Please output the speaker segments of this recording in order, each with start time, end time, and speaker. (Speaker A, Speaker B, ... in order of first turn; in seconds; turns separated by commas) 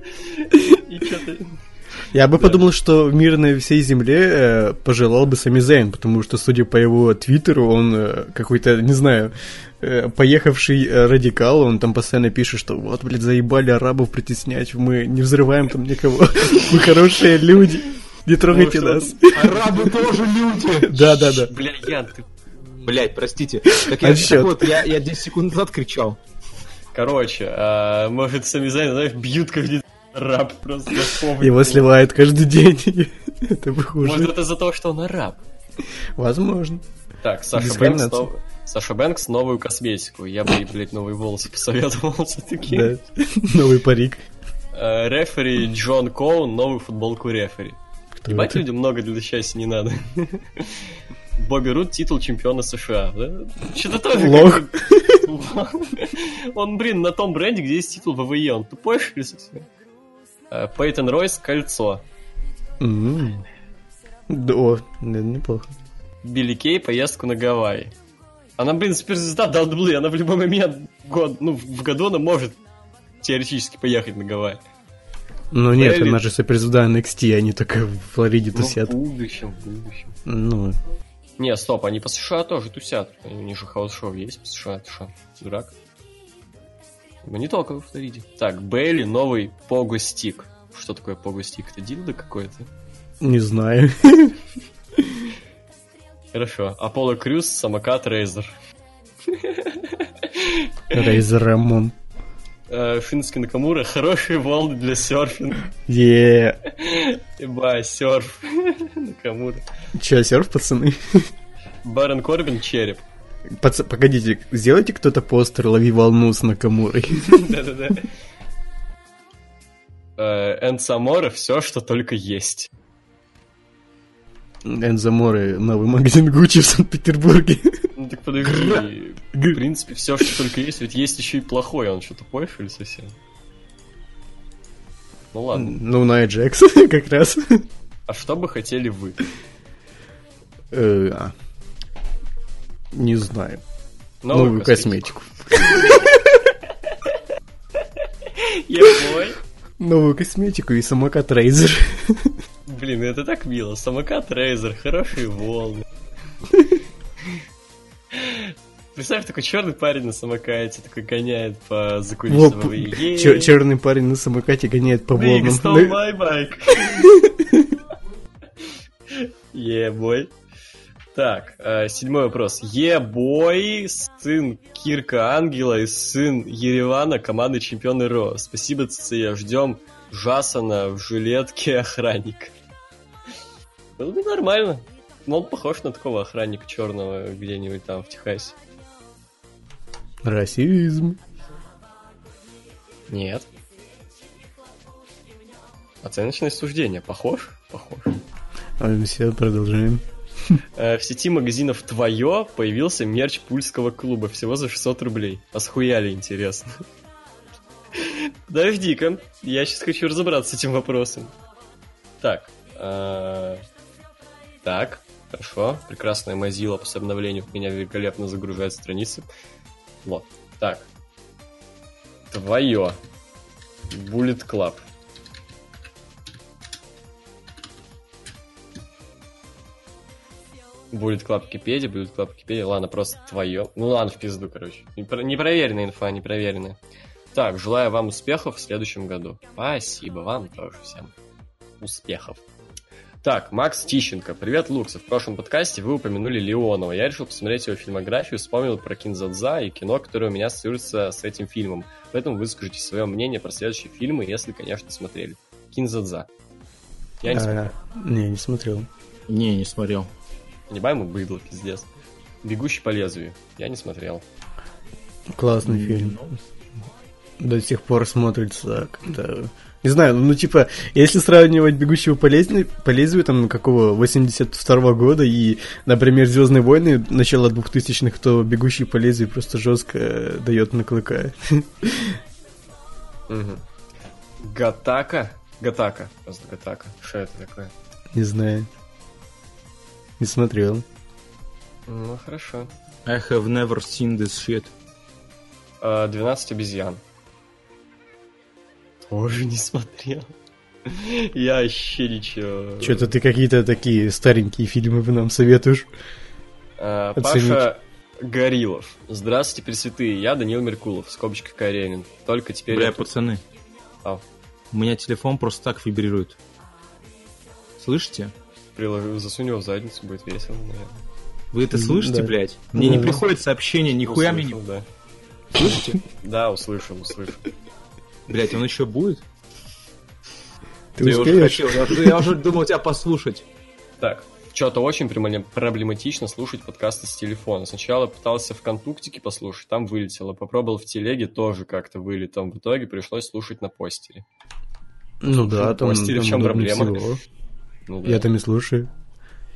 Speaker A: 0.3-1.6, Speaker B: 2.1-19.6, Speaker A: 2.4-2.6, Speaker A: 18.5-19.8, Speaker C: 19.3-20.9, Speaker B: 20.8-21.5, Speaker A: 20.9-22.3, Speaker C: 22.8-26.2, Speaker B: 23.7-24.9, Speaker A: 26.9-31.9, Speaker B: 31.4-34.3, Speaker A: 34.0-35.4, Speaker B: 36.2-36.8, Speaker A: 37.2-42.9, Speaker B: 37.5-38.3, Speaker B: 42.6-44.2, Speaker A: 44.7-59.7, Speaker B: 48.2-48.6, Speaker B: 54.1-55.2, Speaker A: 60.5-62.0, Speaker B: 62.8-63.4, Speaker B: 64.3-65.7, Speaker A: 66.2-67.9, Speaker A: 68.6-72.6, Speaker A: 73.2-74.6, Speaker B: 75.5-78.9, Speaker A: 75.8-76.2, Speaker A: 78.5-80.2, Speaker B: 80.2-80.8, Speaker A: 81.4-85.7, Speaker A: 87.2-92.7, Speaker B: 93.2-94.4, Speaker B: 95.0-95.3, Speaker A: 96.3-98.6, Speaker A: 99.2-101.1, Speaker B: 100.9-101.9, Speaker A: 102.7-105.6, Speaker B: 105.8-106.6, Speaker A: 106.7-109.6, Speaker B: 109.9-111.3, Speaker A: 111.8-113.0, Speaker B: 113.5-117.5, Speaker A: 117.2-118.1, Speaker A: 120.2-122.7, Speaker B: 124.6-127.9, Speaker A: 127.9-133.1, Speaker B: 129.3-129.6, Speaker A: 135.3-135.8, Speaker B: 135.5-137.7, Speaker A: 138.1-139.2, Speaker B: 140.7-141.3, Speaker B: 142.9-143.6, Speaker A: 144.2-145.1, Speaker B: 144.3-146.5, Speaker A: 145.6-146.1, Speaker A: 148.3-149.4, Speaker B: 149.8-152.4, Speaker A: 152.7-155.8, Speaker A: 158.1-163.6, Speaker B: 162.3-166.0, Speaker A: 165.1-167.1, Speaker B: 166.8-167.7, Speaker A: 169.1-170.3, Speaker A: 171.1-182.5, Speaker A: 184.0-188.6, Speaker B: 190.2-191.2, Speaker A: 193.1-193.5, Speaker A: 196.0-198.1, Speaker B: 198.8-200.6, Speaker A: 200.8-206.8, Speaker A: 207.9-211.3, Speaker A: 212.2-213.6, Speaker A: 214.6-219.3, Speaker A: 220.0-220.9, Speaker A: 222.3-223.0, Speaker A: 223.9-224.8, Speaker A: 230.9-236.8, Speaker A: 237.3-241.1, Speaker A: 241.8-242.4, Speaker A: 243.2-256.3, Speaker A: 257.2-257.7, Speaker B: 257.3-258.9, Speaker C: 259.3-260.1, Speaker A: 260.7-261.9, Speaker A: 262.4-264.2, Speaker B: 265.3-266.2, Speaker C: 265.6-266.4, Speaker B: 267.4-282.2, Speaker A: 283.3-283.6, Speaker A: 284.4-287.7, Speaker B: 288.1-288.7, Speaker B: 290.2-290.8, Speaker A: 291.9-292.7, Speaker C: 293.1-294.7, Speaker A: 295.8-297.0, Speaker A: 299.1-300.3, Speaker A: 300.9-303.1, Speaker B: 302.8-305.9, Speaker A: 306.8-313.1, Speaker B: 307.1-307.6, Speaker C: 312.7-313.4, Speaker C: 314.7-316.4, Speaker C: 317.8-318.3, Speaker A: 318.8-321.0, Speaker C: 321.5-324.6, Speaker B: 321.7-323.2, Speaker A: 324.0-324.8, Speaker C: 325.5-326.0, Speaker A: 326.2-327.5, Speaker C: 328.3-329.2, Speaker B: 330.9-332.2, Speaker C: 331.0-333.4, Speaker A: 334.0-344.2, Speaker B: 345.2-347.2, Speaker A: 345.3-347.0, Speaker A: 347.9-348.2, Speaker B: 348.0-348.9